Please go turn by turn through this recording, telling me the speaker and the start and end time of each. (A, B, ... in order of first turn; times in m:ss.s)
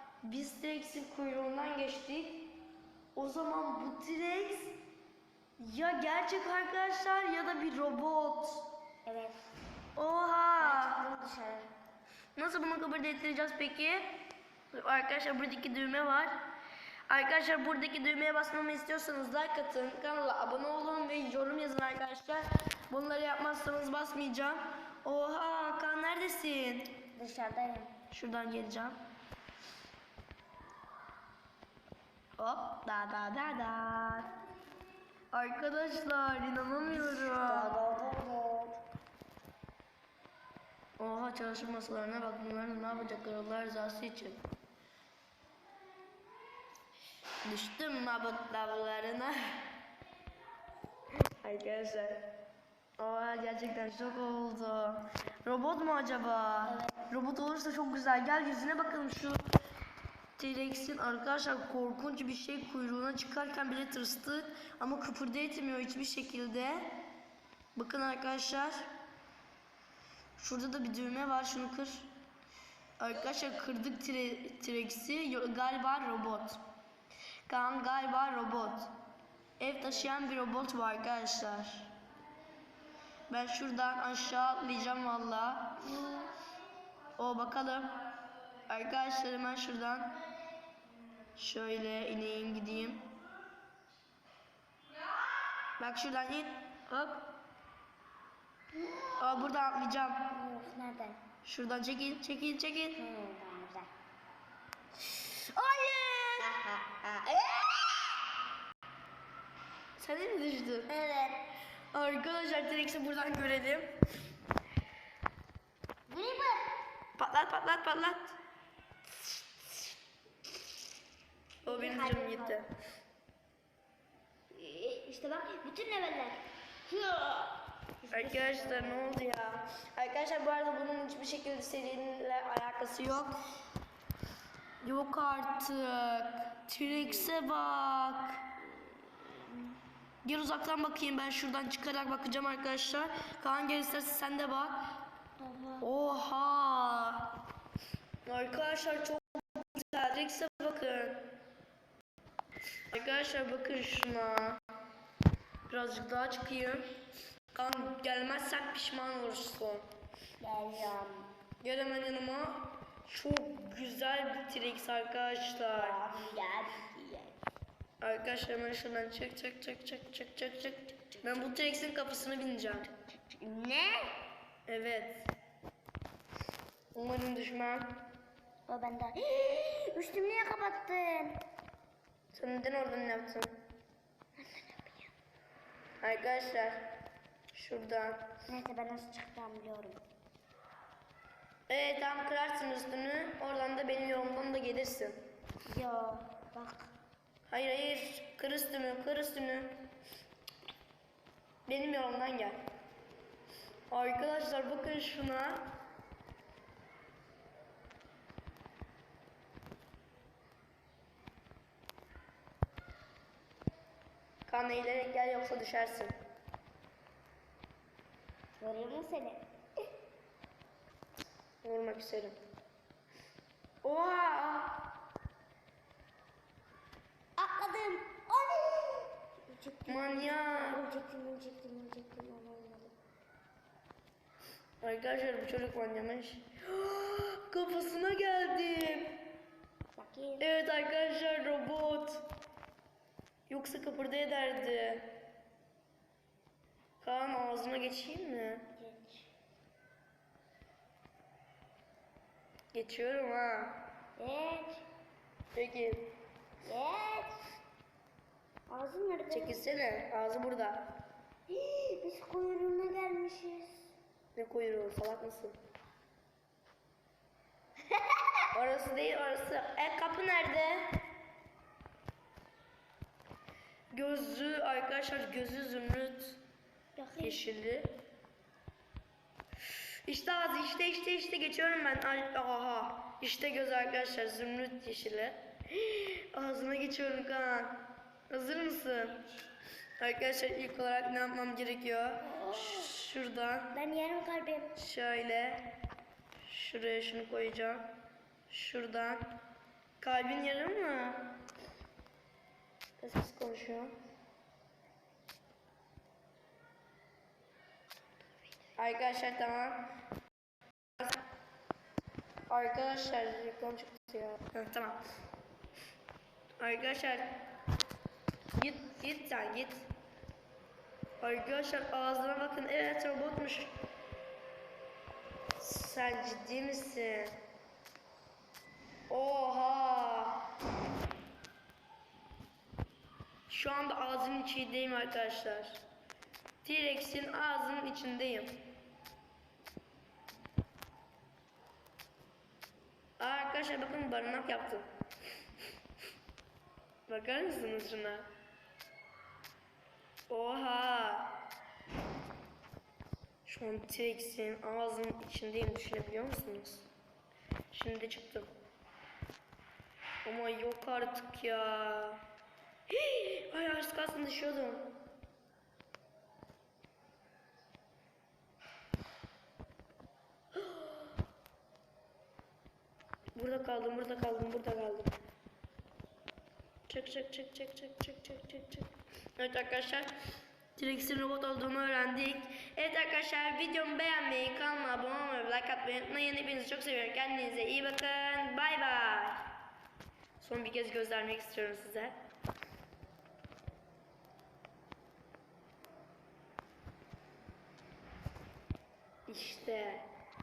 0:00.2-0:02.6 A
0:03.2-0:04.8 A
0:05.6-0:08.7 A
0:09.1-0:09.4 B
0:10.0-0:11.0 A
0:10.6-0:11.7 B
0:12.4-0:14.1 A
0:14.7-0:16.4 A
0:17.1-0:27.0 A
0:27.2-0:27.9 B
0:28.1-0:29.0 A
0:32.4-0:34.3 A
0:35.3-0:37.8 A
0:37.2-0:38.8 B
0:41.0-0:44.4 A
0:47.4-0:49.6 A
0:51.4-0:52.3 A
0:53.0-0:59.4 A
0:56.6-0:57.1 B
1:00.4-1:06.9 A
1:07.8-1:08.9 A
1:10.4-1:12.1 A
1:13.0-1:16.6 A
1:17.5-1:18.9 A
1:19.6-1:21.9 A
1:23.3-1:26.2 A
1:27.2-1:28.0 A
1:28.7-1:30.2 A
1:31.4-1:33.1 A
1:35.8-1:37.3 A
1:38.8-1:39.5 B
1:39.2-1:40.3 A
1:40.3-1:41.2 B
1:41.4-1:43.0 A
1:43.0-1:43.9 B
1:45.1-1:46.5 A
1:46.4-1:48.3 B
1:50.0-1:50.9 A
1:50.9-1:51.5 B
1:51.9-1:53.9 A
1:56.1-1:56.8 B
1:57.2-1:58.3 A
2:01.6-2:02.6 B
2:01.6-2:02.7 A
2:04.5-2:09.2 B
2:08.1-2:13.4 A
2:14.8-2:18.5 A
2:17.0-2:17.3 B
2:20.2-2:24.9 A
2:25.4-2:25.9 B
2:25.8-2:27.4 A
2:28.3-2:31.3 A
2:32.9-2:34.6 A
2:35.7-2:36.9 A
2:37.5-2:39.9 A
2:40.4-2:41.3 B
2:41.6-2:46.0 A
2:45.8-2:47.4 B
2:48.0-2:52.9 A
2:53.1-2:54.2 B
2:54.7-2:55.3 A
2:57.0-2:58.0 A
2:58.7-3:01.4 B
3:02.3-3:03.6 A
3:04.4-3:05.1 B
3:06.0-3:06.9 A
3:07.5-3:08.3 A
3:08.5-3:10.0 B
3:11.7-3:15.2 A
3:15.6-3:16.9 B
3:17.5-3:19.8 A
3:21.7-3:22.6 A
3:23.9-3:25.7 A
3:34.5-3:36.1 A
3:38.6-3:39.5 B
3:41.6-3:42.4 A
3:43.8-3:44.9 A
3:47.4-3:52.9 B
3:49.9-3:50.8 A
3:54.8-3:59.3 A
4:00.0-4:00.5 B
4:00.4-4:02.2 A
4:03.5-4:05.2 A
4:07.0-4:08.7 A
4:08.8-4:09.3 B
4:12.7-4:13.8 A
4:14.2-4:14.8 B
4:15.6-4:16.1 A
4:16.6-4:17.4 B
4:18.7-4:19.6 B
4:19.3-4:20.9 A
4:21.5-4:23.9 B
4:24.4-4:25.6 A
4:27.9-4:28.2 B
4:28.5-4:31.0 A
4:33.9-4:36.4 A
4:37.0-4:37.4 B
4:37.2-4:38.0 A
4:40.1-4:49.2 A
4:50.0-4:53.8 A
4:52.2-4:52.9 B
4:53.7-4:54.8 B
4:54.8-4:55.8 A
4:56.4-4:57.9 A
4:58.5-4:59.4 A
5:00.0-5:01.4 A
5:03.0-5:04.0 A
5:08.8-5:09.9 A
5:11.0-5:11.2 A
5:12.5-5:15.0 A
5:16.6-5:17.4 A
5:18.6-5:19.9 A
5:21.2-5:23.7 A
5:25.6-5:27.4 A
5:29.1-5:30.5 A
5:33.5-5:35.8 A
5:36.6-5:38.6 A
5:43.2-5:44.9 A
5:47.1-5:48.3 A
5:50.3-5:51.4 A
5:53.4-5:56.9 A
5:57.7-5:58.5 A
6:00.2-6:02.2 A
6:02.9-6:05.0 A
6:10.6-6:11.1 A
6:13.4-6:15.1 A
6:16.9-6:20.1 A
6:20.8-6:29.5 A
6:30.4-6:32.2 A
6:39.3-6:40.1 A